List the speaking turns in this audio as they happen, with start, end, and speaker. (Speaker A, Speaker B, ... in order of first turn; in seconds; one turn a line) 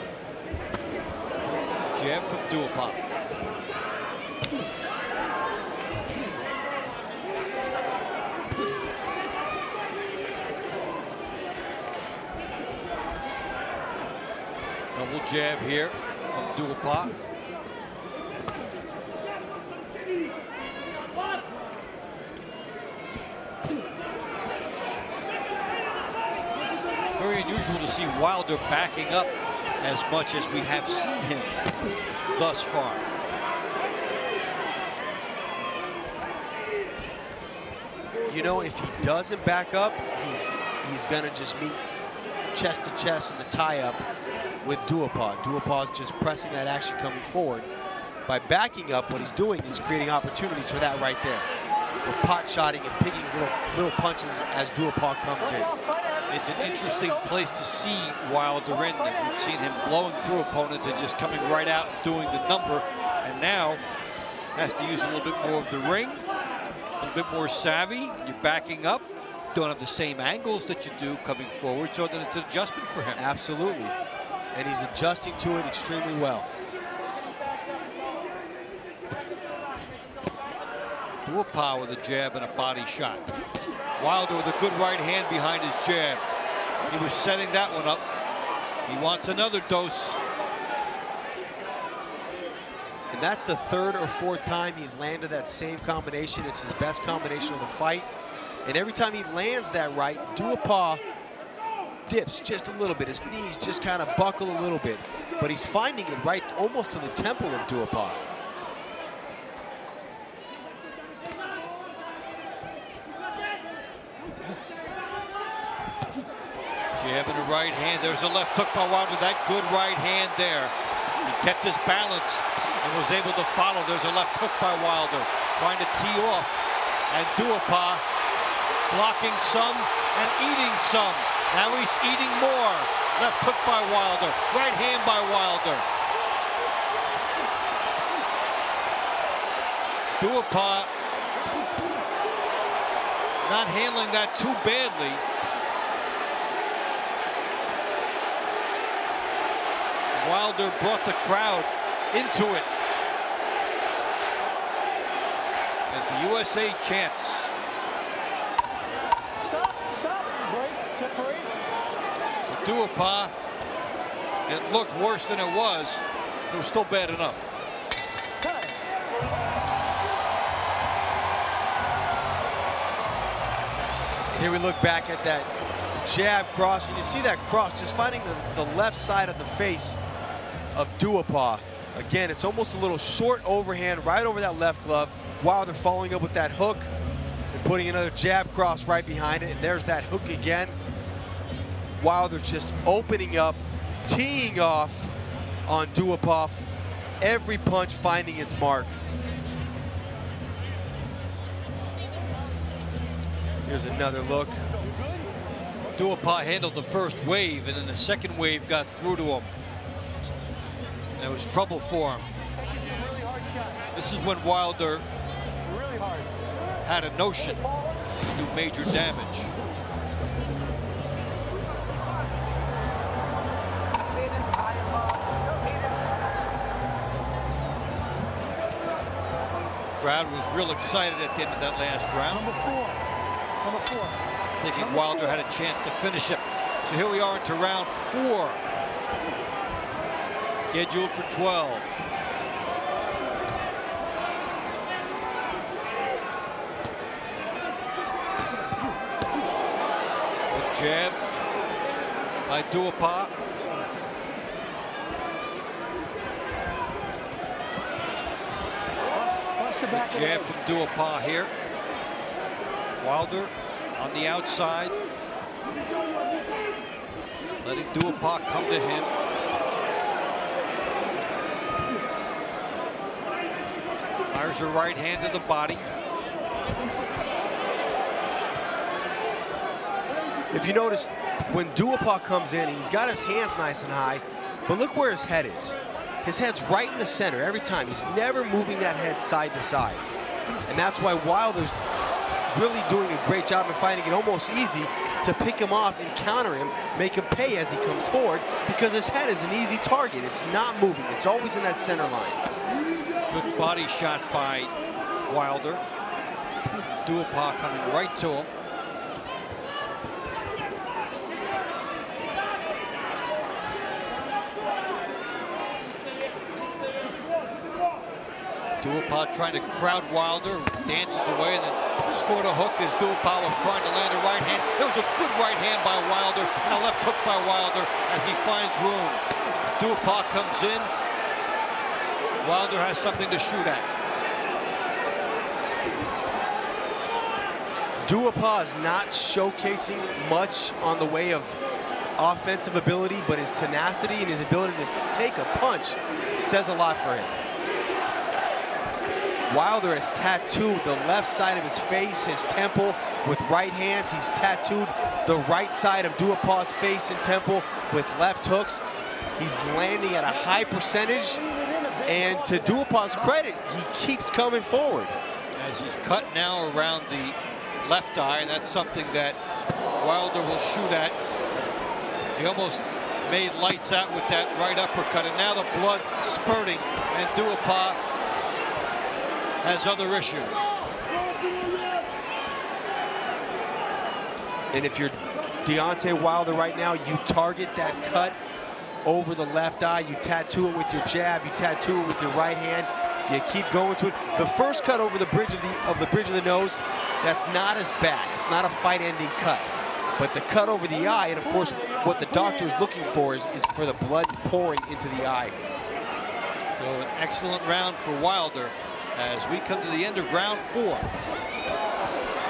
Speaker A: 1.9-3.0
Speaker A: 14.9-17.1
Speaker A: 27.2-31.6
Speaker A: 32.3-33.0
Speaker B: 38.3-41.8
Speaker B: 42.5-44.0
Speaker B: 44.6-47.7
Speaker B: 48.2-51.5
Speaker B: 52.0-55.7
Speaker C: 55.4-57.3
Speaker A: 56.3-63.8
Speaker C: 58.7-59.5
Speaker A: 64.5-66.2
Speaker A: 67.0-73.2
Speaker B: 73.1-73.9
Speaker B: 74.5-76.5
Speaker A: 81.2-83.3
Speaker A: 84.0-86.2
Speaker A: 86.9-88.0
Speaker A: 88.8-90.2
Speaker B: 93.1-98.1
Speaker B: 98.7-101.0
Speaker B: 102.1-108.2
Speaker A: 117.0-126.6
Speaker A: 127.1-128.0
Speaker A: 128.9-135.8
Speaker A: 140.2-140.9
Speaker A: 143.4-145.2
Speaker A: 150.1-152.7
Speaker A: 155.9-157.5
Speaker C: 159.4-161.5
Speaker A: 162.5-163.3
Speaker A: 164.4-167.5
Speaker C: 168.4-168.8
Speaker B: 174.3-175.5
Speaker B: 176.0-180.0
Speaker B: 180.7-186.9
Speaker B: 187.5-190.7
Speaker B: 192.0-195.1
Speaker B: 195.7-198.9
Speaker B: 203.7-204.6
Speaker C: 204.8-205.3
Speaker A: 205.9-209.5
Speaker A: 211.2-212.2
Speaker C: 212.5-213.9
Speaker A: 213.9-215.0
Speaker C: 215.7-216.3
Speaker A: 216.8-217.6
Speaker A: 218.3-219.5
Speaker A: 230.0-232.5
Speaker C: 232.3-233.0
Speaker C: 233.6-234.2
Speaker A: 234.6-238.6
Speaker C: 234.8-235.4
Speaker A: 240.6-242.0
Speaker A: 250.5-251.2
Speaker A: 252.5-253.3
Speaker C: 259.1-260.5
Speaker A: 259.9-261.5
Speaker A: 263.0-264.9
Speaker A: 267.6-269.1
Speaker A: 274.3-275.9
Speaker B: 280.5-290.0
Speaker B: 290.6-291.8
Speaker B: 292.5-302.4
Speaker A: 303.3-304.7
Speaker A: 305.3-305.8
Speaker A: 307.0-308.5
Speaker A: 318.8-329.2
Speaker A: 329.8-330.9
Speaker A: 332.4-333.9
Speaker B: 338.0-341.6
Speaker B: 342.2-347.4
Speaker B: 349.5-358.8
Speaker B: 359.4-361.4
Speaker C: 361.2-363.5
Speaker B: 362.0-365.2
Speaker A: 365.6-369.4
Speaker A: 369.9-371.1
Speaker A: 372.4-378.0
Speaker A: 379.6-380.7
Speaker B: 384.7-388.4
Speaker B: 389.0-405.6
Speaker C: 400.9-402.9
Speaker A: 406.8-411.1